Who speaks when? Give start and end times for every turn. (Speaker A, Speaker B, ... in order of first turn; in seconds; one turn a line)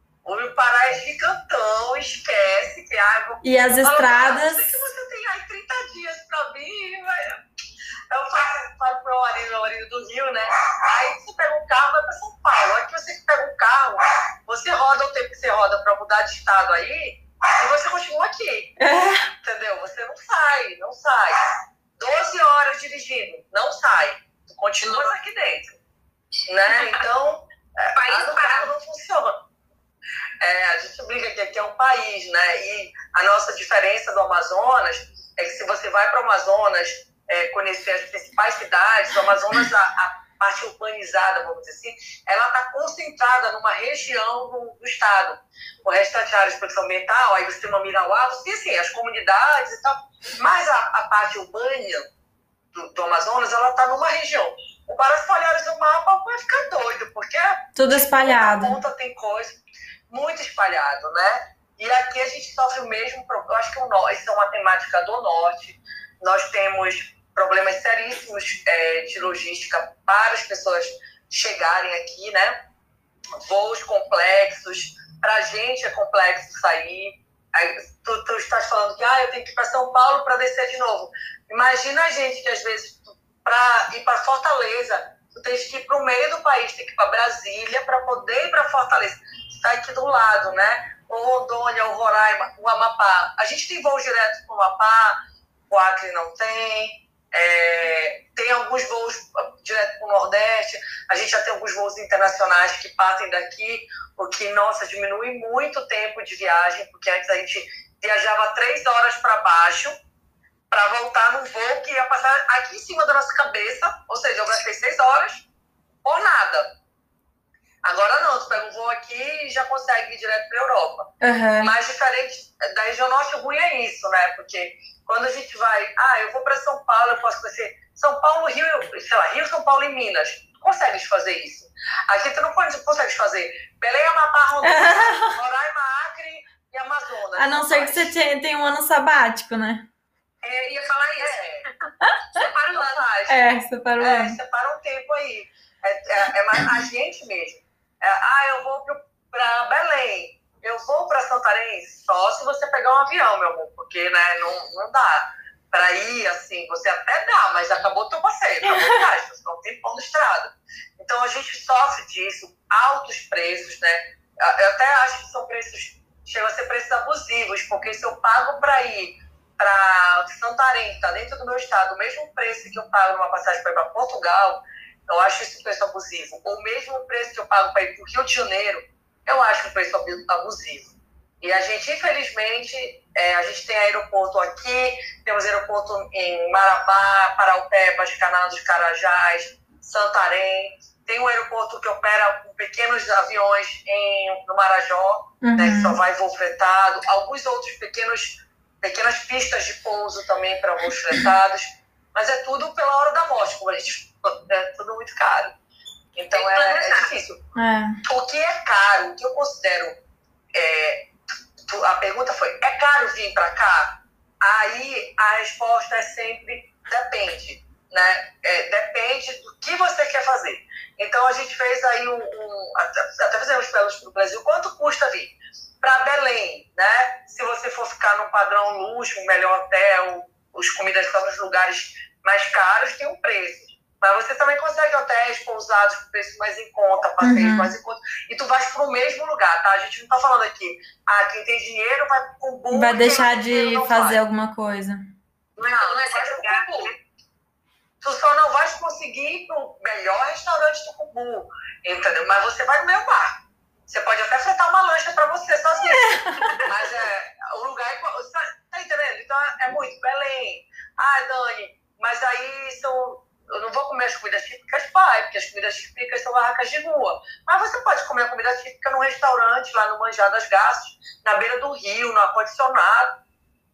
Speaker A: 0.2-7.4
Speaker B: 3.4-4.7
Speaker A: 8.1-18.7
Speaker B: 18.8-19.3
Speaker A: 19.4-21.4
Speaker A: 22.0-25.8
Speaker C: 24.8-25.1
Speaker A: 26.5-29.4
Speaker C: 26.7-27.0
Speaker C: 27.9-28.7
Speaker A: 30.4-52.1
Speaker A: 52.7-59.6
Speaker B: 57.8-58.8
Speaker A: 60.1-72.5
Speaker A: 73.3-95.2
Speaker A: 95.7-109.9
Speaker A: 110.7-115.4
Speaker A: 116.0-116.7
Speaker A: 117.8-138.3
Speaker B: 121.2-121.7
Speaker B: 134.6-135.4
Speaker B: 137.3-139.9
Speaker C: 140.4-141.4
Speaker A: 141.2-141.7
Speaker C: 142.3-143.0
Speaker A: 142.7-143.4
Speaker B: 143.3-144.4
Speaker A: 144.0-205.5
Speaker B: 158.7-159.0
Speaker B: 195.4-196.0
Speaker A: 206.2-207.4
Speaker C: 206.3-207.1
Speaker B: 207.5-208.0
Speaker A: 208.0-209.9
Speaker A: 210.5-211.1
Speaker A: 211.7-244.2
Speaker B: 237.2-237.7
Speaker B: 242.7-245.1
Speaker C: 245.6-246.9
Speaker A: 245.7-246.9
Speaker A: 248.0-253.4
Speaker A: 253.9-273.1
Speaker B: 255.8-256.7